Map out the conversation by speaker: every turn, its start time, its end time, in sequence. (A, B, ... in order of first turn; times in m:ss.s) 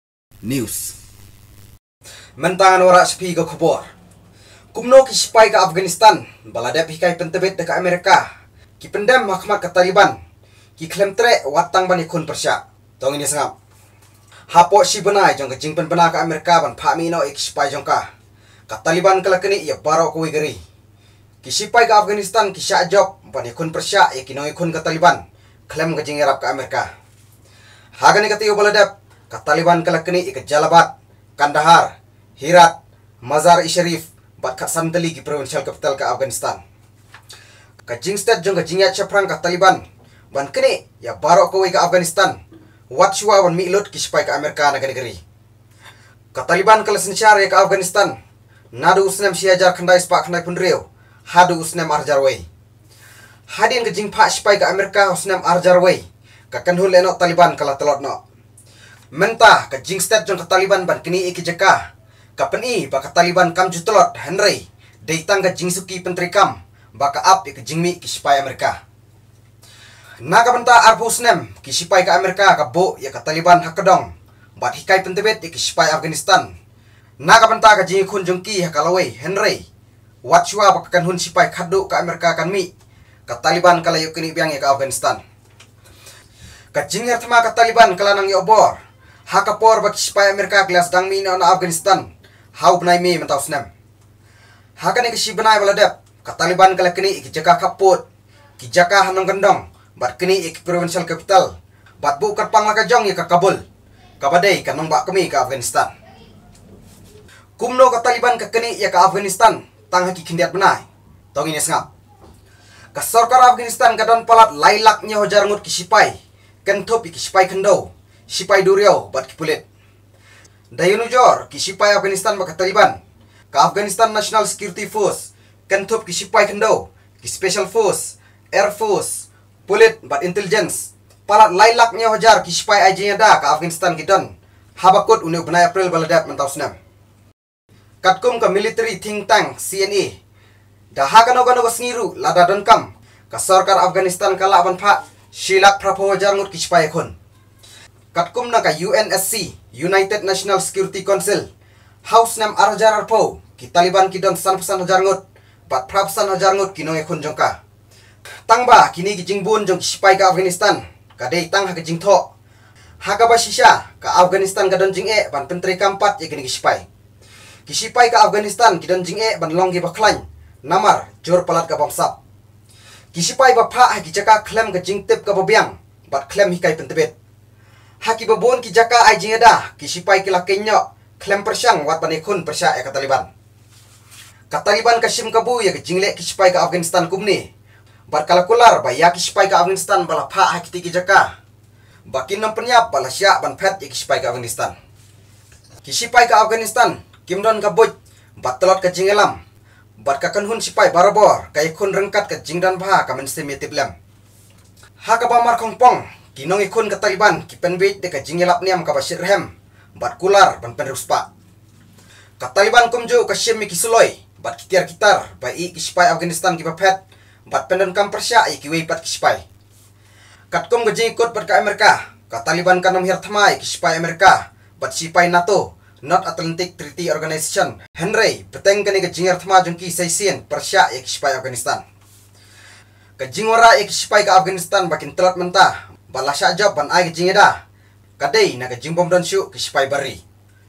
0:00.4-0:00.9 A
0:02.4-0:03.9 A
0:04.7-0:08.3 A
0:08.8-0:10.2 A
0:10.8-0:13.5 A
0:14.5-0:18.0 A
0:18.7-0:20.6 A
0:21.4-0:26.9 A
0:28.0-0:36.6 A
0:37.9-0:42.4 A
0:42.9-0:45.2 A
0:46.3-0:48.2 A
0:48.7-0:52.4 A
0:53.5-0:58.2 A
0:59.1-1:01.8 A
1:02.4-1:08.8 A
1:10.2-1:16.5 A
1:17.2-1:19.6 A
1:20.2-1:22.7 A
1:23.3-1:25.2 A
1:26.7-1:33.7 A
1:34.8-1:38.0 A
1:38.6-1:43.6 A
1:44.2-1:45.9 A
1:47.6-1:51.8 A
1:52.9-1:59.6 A
2:00.7-2:03.0 A
2:03.5-2:16.7 A
2:18.0-2:20.1 A
2:20.9-2:27.1 A
2:28.1-2:31.5 A
2:32.0-2:37.6 A
2:38.5-2:42.3 A
2:43.0-2:46.8 A
2:47.7-2:52.1 A
2:53.1-2:57.1 A
2:58.0-3:03.3 A
3:04.5-3:07.5 A
3:08.1-3:11.3 A
3:12.1-3:14.7 A
3:15.8-3:19.4 A
3:20.0-3:23.9 A
3:25.0-3:31.3 A
3:32.4-3:39.4 A
3:40.5-3:51.8 A
3:53.2-3:57.6 A
3:58.2-4:00.2 A